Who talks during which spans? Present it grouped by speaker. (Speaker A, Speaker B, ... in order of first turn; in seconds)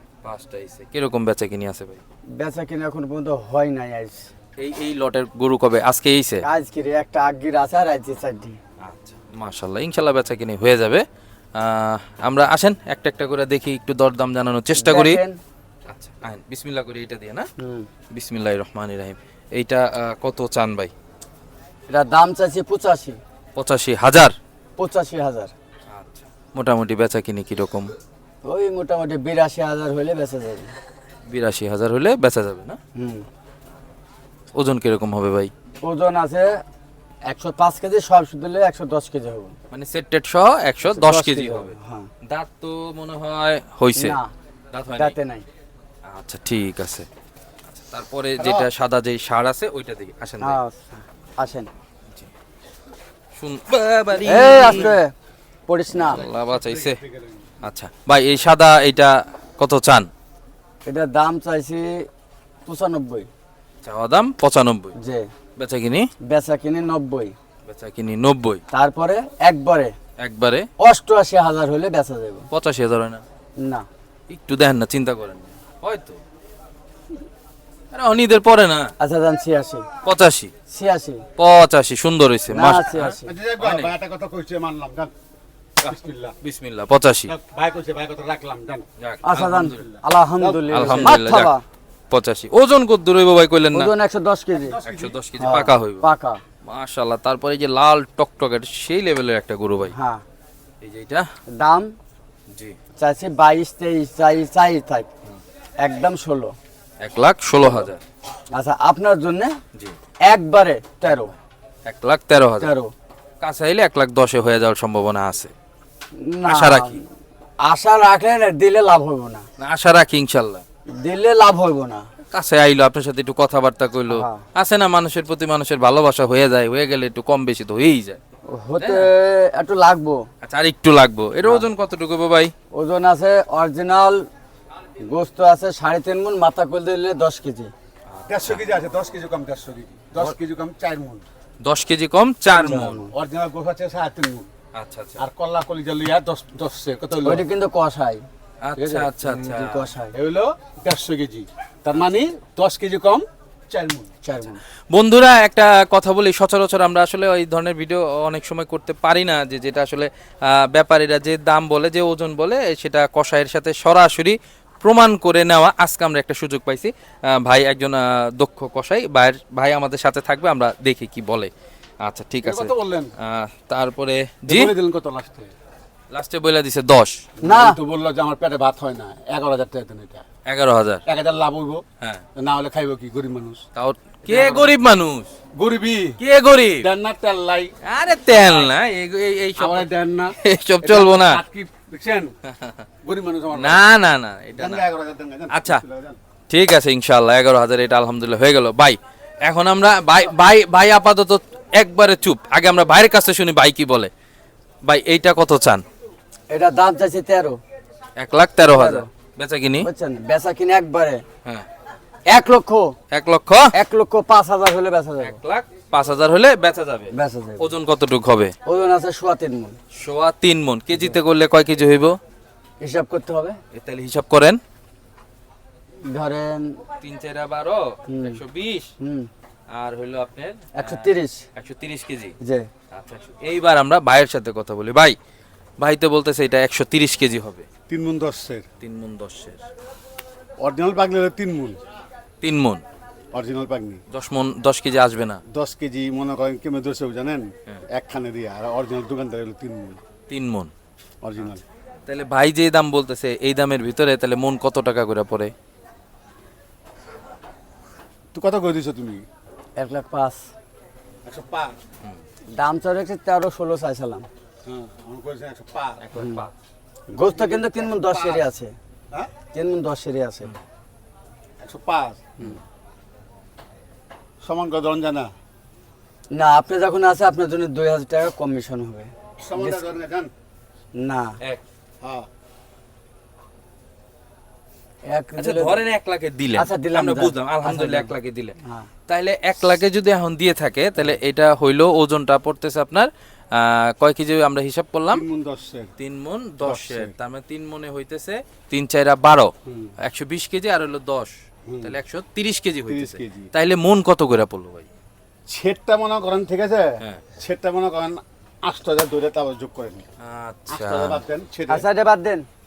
Speaker A: 0.2-2.0, 4.6-6.4, 8.8-11.0, 11.6-15.2, 15.9-17.5, 18.1-20.9, 23.6-24.4, 25.9-27.9, 31.3-32.8, 34.5-35.5, 39.7-44.2, 44.7-45.1, 46.0-47.0, 47.7-50.6, 53.3-55.0, 55.9-57.0, 57.6-60.1, 63.8-65.0, 65.6-66.1, 67.7-68.6, 70.2-70.7, 72.5-73.2, 74.3-76.2, 77.9-78.9, 80.0-80.5, 81.4-83.9, 86.4-87.3, 89.0-89.9, 90.7-91.5, 92.1-93.9, 94.9-96.0, 96.6-99.9, 100.8-101.3, 102.5-102.8, 107.0-108.0, 111.8-112.7, 113.4-115.5, 116.5-117.0, 119.6-120.6, 122.3-128.2, 128.8-129.1, 130.4-132.5, 138.1-138.6, 141.6-143.0, 144.7-145.2, 148.6-149.9, 154.9-171.5, 172.0-174.7, 176.1-177.2, 180.4-181.0, 183.8-185.3, 186.2-186.9, 187.8-191.4, 192.5-192.9, 193.5-194.9, 195.5-195.8, 196.5-204.1, 204.8-205.8, 208.2-209.9, 213.1-213.7, 215.2-218.5, 219.9-222.2, 223.7-224.6, 227.0-228.9, 229.7-232.3, 232.9-235.2, 235.8-237.7, 238.8-239.6, 242.4-242.8, 244.1-245.4, 250.3-250.7, 251.4-255.5, 266.0-266.5, 285.4-288.6, 289.1-295.2, 296.0-304.9, 310.2-311.2
Speaker B: 2.4-4.3, 6.4-8.6, 14.8-15.4, 17.6-17.9, 21.9-23.2, 24.8-25.5, 28.4-30.7, 33.0-33.2, 35.8-36.6, 37.3-39.5, 40.9-42.1, 44.0-44.3, 44.9-45.5, 50.4-51.7, 54.2-55.1, 55.7-56.2, 60.9-61.9, 62.6-63.3, 65.0-65.2, 66.3-67.3, 68.7-69.9, 70.8-72.5, 79.0-79.9, 80.7-81.2, 82.5-83.3, 89.2-91.6, 93.7-94.8, 95.4-96.4, 99.9-100.2, 101.5-101.9, 103.0-105.1, 105.8-106.5, 108.5-109.6, 110.3-111.3, 112.6-112.9, 116.2-117.0, 117.6-119.4, 121.0-122.0, 124.1-124.5, 128.5-130.2, 132.7-134.2, 135.1-137.7, 142.5-143.1, 147.2-150.1, 154.2-154.6, 177.4-177.8, 206.5-207.6, 208.6-209.1, 209.8-211.2, 212.3-212.9, 213.7-215.4, 217.1-217.7, 218.6-219.8, 222.8-223.6, 226.1-226.8, 228.1-228.4, 229.0-229.3, 230.7-231.4, 232.4-232.7, 259.8-260.5, 262.5-264.3, 266.1-266.4, 267.1-268.7, 269.5-270.5, 276.3-279.9, 281.0-281.4, 285.1-285.8, 286.5-288.9, 311.7-312.4
Speaker C: 54.3-55.0, 56.2-57.6, 83.2-85.1, 85.8-86.3, 87.3-88.8, 90.4-91.2, 94.6-95.1, 138.2-141.2, 143.1-144.5, 145.2-147.4, 150.1-154.1, 172.4-173.1, 174.4-175.5, 177.4-180.2, 181.1-181.8, 182.3-183.6, 184.3-184.7, 185.5-186.2, 186.8-187.7, 189.6-192.3, 193.0-193.8, 194.5-196.2, 237.9-238.6, 240.6-241.8, 243.3-244.0, 245.5-250.0, 251.2-251.6, 258.3-259.2, 261.2-261.8, 264.6-266.1, 267.3-268.4, 271.6-272.3, 274.4-275.3, 279.4-280.3, 282.0-282.3, 295.1-295.9, 296.6-297.1, 299.7-299.9, 301.7-301.9, 302.9-303.5, 305.5-310.1, 310.7-311.8